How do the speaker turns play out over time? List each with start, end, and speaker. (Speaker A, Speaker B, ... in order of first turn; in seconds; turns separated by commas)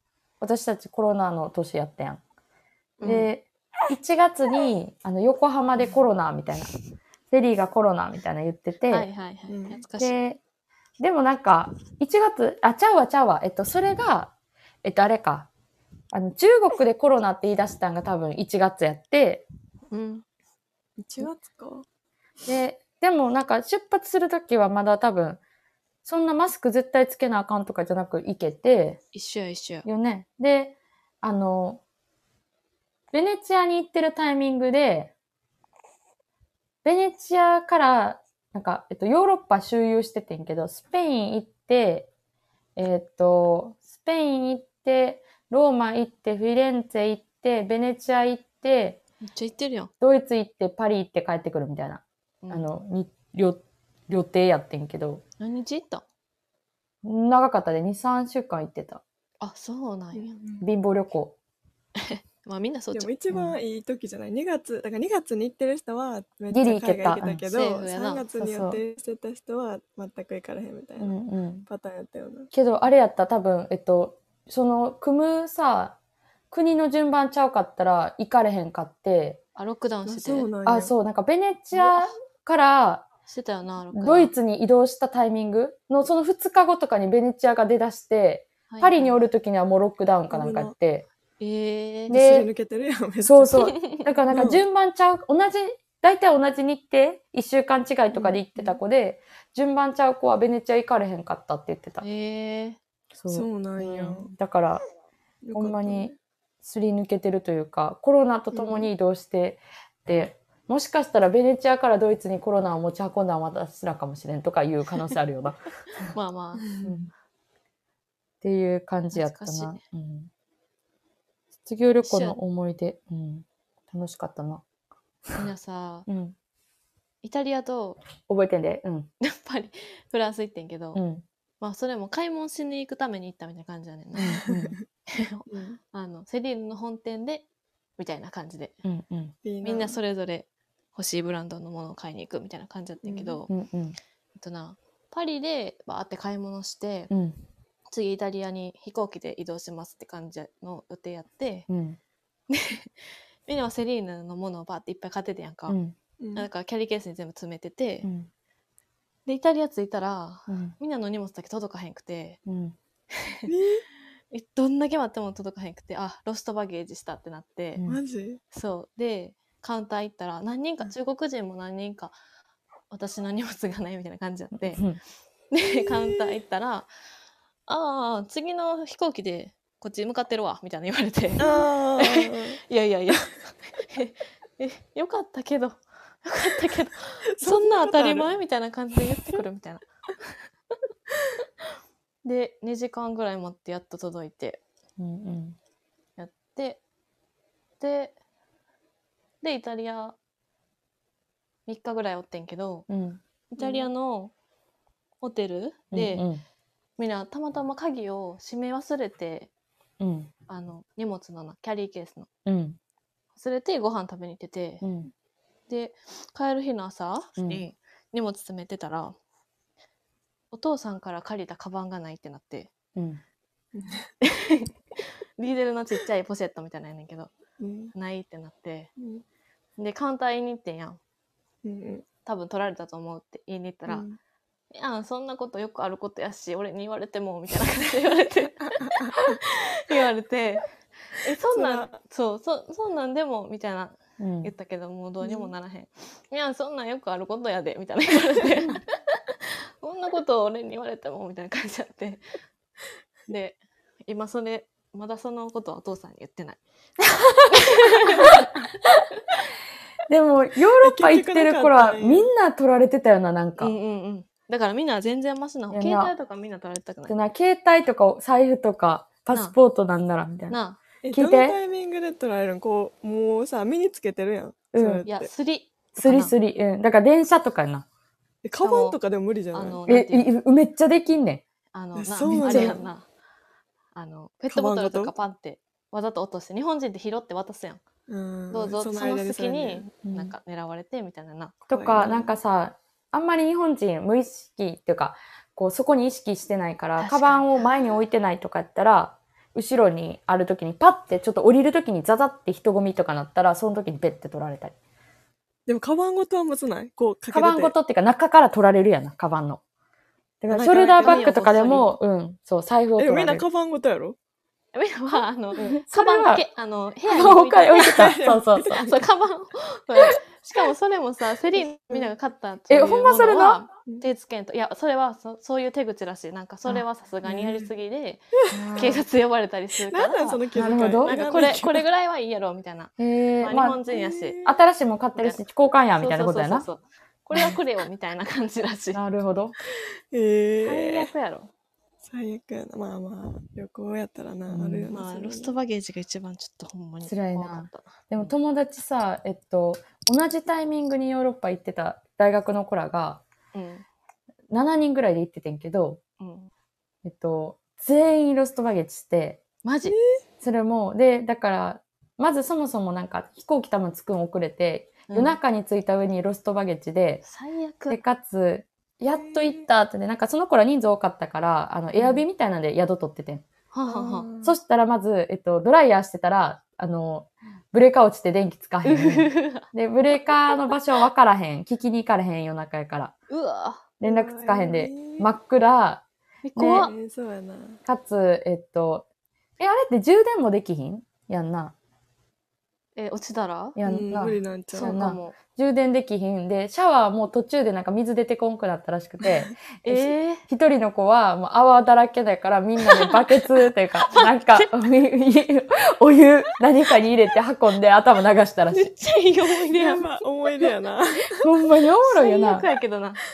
Speaker A: 0.4-2.2, Speaker B: 3.0-3.3, Speaker A: 3.0-6.7, Speaker A: 7.3-9.1, Speaker B: 8.9-10.2, Speaker C: 9.5-9.8, Speaker A: 10.0-10.4, Speaker A: 11.0-14.3, Speaker A: 14.8-15.5, Speaker A: 16.1-19.4, Speaker B: 19.9-20.2, Speaker C: 21.0-21.8, Speaker A: 22.4-25.4, Speaker A: 26.0-29.0, Speaker B: 29.1-29.9, Speaker A: 29.8-31.8, Speaker A: 33.1-35.1, Speaker A: 36.8-42.1, Speaker A: 42.8-49.0, Speaker B: 49.2-49.9, Speaker A: 50.0-55.2, Speaker B: 52.4-52.7, Speaker B: 55.4-56.0, Speaker A: 57.0-59.0, Speaker B: 59.4-60.4, Speaker C: 60.1-60.6, Speaker A: 60.6-61.4, Speaker B: 62.0-63.1, Speaker C: 62.9-71.2, Speaker A: 63.3-63.6, Speaker A: 66.5-67.4, Speaker B: 67.4-68.2, Speaker A: 68.4-68.8, Speaker A: 71.0-71.7, Speaker C: 71.7-72.5, Speaker A: 72.5-76.0, Speaker A: 76.5-79.4, Speaker B: 79.5-80.5, Speaker C: 80.0-80.9, Speaker A: 80.6-83.1, Speaker B: 83.3-84.3, Speaker A: 83.9-91.1, Speaker B: 88.7-89.1, Speaker C: 90.3-90.7, Speaker B: 91.4-92.2, Speaker C: 92.1-93.7, Speaker A: 92.1-92.5, Speaker A: 93.2-102.0, Speaker B: 93.6-94.0, Speaker C: 94.3-94.6, Speaker C: 98.1-98.8, Speaker B: 102.0-102.8, Speaker A: 103.2-104.8, Speaker C: 103.3-104.3, Speaker C: 105.4-106.1, Speaker A: 105.5-115.7, Speaker C: 108.5-108.9, Speaker B: 116.1-116.6, Speaker A: 116.8-117.1, Speaker A: 118.4-120.3, Speaker B: 119.1-119.8, Speaker A: 121.7-124.6, Speaker B: 122.0-122.3, Speaker B: 125.3-126.1, Speaker A: 126.1-126.3, Speaker B: 127.2-128.0, Speaker A: 128.2-129.1, Speaker B: 129.2-131.0, Speaker A: 130.9-131.2, Speaker B: 131.6-134.4, Speaker A: 134.2-134.7, Speaker C: 134.4-134.8, Speaker B: 135.1-137.4, Speaker C: 135.5-135.8, Speaker B: 138.0-138.7, Speaker A: 138.8-139.3, Speaker C: 139.4-140.0, Speaker B: 139.6-143.5, Speaker C: 143.0-143.4, Speaker A: 143.5-144.0, Speaker B: 144.3-147.1, Speaker A: 147.1-147.4, Speaker B: 147.9-151.7, Speaker A: 151.7-152.0, Speaker B: 152.5-152.9, Speaker B: 153.5-155.8, Speaker A: 155.7-155.9, Speaker C: 156.2-156.5, Speaker B: 156.3-158.1, Speaker A: 158.0-158.3, Speaker B: 159.2-162.4, Speaker A: 160.5-160.7, Speaker A: 162.4-162.7, Speaker B: 163.2-163.5, Speaker C: 163.5-163.8, Speaker B: 164.3-167.8, Speaker C: 167.8-168.4, Speaker B: 168.5-172.1, Speaker B: 172.9-174.9, Speaker A: 174.7-175.0, Speaker B: 175.5-176.9, Speaker B: 177.7-190.3, Speaker C: 181.4-182.6, Speaker C: 187.4-188.3, Speaker B: 192.2-194.6, Speaker A: 195.0-195.6, Speaker B: 196.2-196.8, Speaker B: 197.8-198.2, Speaker B: 199.4-200.2, Speaker B: 201.7-202.9, Speaker A: 202.9-203.2, Speaker B: 203.5-204.3, Speaker C: 203.6-203.9, Speaker B: 205.2-206.2, Speaker A: 205.9-206.4, Speaker B: 207.0-209.5, Speaker A: 210.0-210.3, Speaker B: 210.5-212.3, Speaker A: 212.4-212.8, Speaker B: 213.3-214.8, Speaker A: 214.8-215.1, Speaker B: 215.7-219.2, Speaker A: 217.4-217.6, Speaker B: 220.5-222.7, Speaker A: 222.9-223.2, Speaker C: 223.7-224.1, Speaker B: 224.2-227.3, Speaker C: 227.6-227.9, Speaker B: 227.9-228.9, Speaker C: 229.0-229.2, Speaker B: 229.8-231.0, Speaker C: 231.6-232.1, Speaker B: 232.2-234.1, Speaker C: 233.9-234.2, Speaker B: 234.7-240.7, Speaker C: 238.9-239.1, Speaker B: 241.2-252.2, Speaker C: 241.5-241.9, Speaker A: 244.2-244.5, Speaker C: 245.2-245.5, Speaker B: 253.3-256.6, Speaker B: 257.2-258.5, Speaker A: 260.1-263.7, Speaker C: 260.8-262.3, Speaker B: 263.6-267.1, Speaker A: 265.7-266.1, Speaker A: 267.1-270.6, Speaker B: 270.5-270.8, Speaker C: 271.0-275.3, Speaker A: 271.1-271.6, Speaker A: 274.7-275.0, Speaker B: 275.1-276.3, Speaker A: 276.0-277.9, Speaker C: 278.4-279.8, Speaker B: 278.6-279.0, Speaker B: 279.5-280.3, Speaker A: 279.9-281.4, Speaker B: 281.7-283.1, Speaker C: 281.9-282.8, Speaker A: 282.4-282.8, Speaker B: 283.9-287.8, Speaker C: 284.5-285.1, Speaker C: 288.1-289.8, Speaker B: 288.5-291.6, Speaker A: 290.0-290.3, Speaker A: 291.7-304.7, Speaker C: 291.7-292.3, Speaker B: 297.0-297.5, Speaker C: 305.7-307.7, Speaker A: 307.3-309.6, Speaker A: 310.4-313.4, Speaker C: 310.5-311.3, Speaker B: 311.0-311.9, Speaker C: 313.0-314.2, Speaker B: 314.7-318.1, Speaker A: 315.8-316.4, Speaker A: 317.1-318.8, Speaker C: 317.8-319.0, Speaker B: 318.7-330.4, Speaker A: 322.7-323.6, Speaker C: 327.2-327.7, Speaker C: 328.5-329.0, Speaker A: 328.5-329.0, Speaker C: 329.8-331.8, Speaker A: 330.5-331.1, Speaker B: 331.0-334.4, Speaker A: 333.0-333.8, Speaker C: 333.9-334.5, Speaker A: 334.4-336.6, Speaker B: 336.0-339.0, Speaker A: 338.9-339.5, Speaker C: 340.1-341.1, Speaker B: 340.6-341.5, Speaker C: 342.0-345.5, Speaker A: 344.5-344.9, Speaker B: 344.9-348.3, Speaker A: 347.1-353.2, Speaker B: 353.5-353.9, Speaker A: 354.5-356.0, Speaker B: 356.2-356.5, Speaker A: 357.0-359.4, Speaker B: 359.6-359.9, Speaker C: 359.8-360.2, Speaker A: 360.4-367.2, Speaker B: 365.1-365.4, Speaker B: 367.2-368.0, Speaker A: 367.9-373.4, Speaker C: 369.1-369.6, Speaker B: 373.7-374.3, Speaker C: 373.9-374.6, Speaker A: 374.4-383.1, Speaker B: 378.8-379.6, Speaker B: 383.3-383.9, Speaker A: 384.0-386.0, Speaker C: 384.0-385.3, Speaker B: 386.4-386.9, Speaker A: 386.6-386.9, Speaker C: 386.7-387.8, Speaker A: 387.9-389.1, Speaker A: 389.6-391.7, Speaker B: 392.9-393.8, Speaker A: 393.8-408.9, Speaker C: 393.8-395.0, Speaker B: 394.7-395.4, Speaker B: 399.8-400.4, Speaker B: 402.9-403.3, Speaker B: 404.0-404.7, Speaker B: 408.7-410.1, Speaker C: 409.7-411.5, Speaker A: 411.3-412.7, Speaker B: 412.0-413.2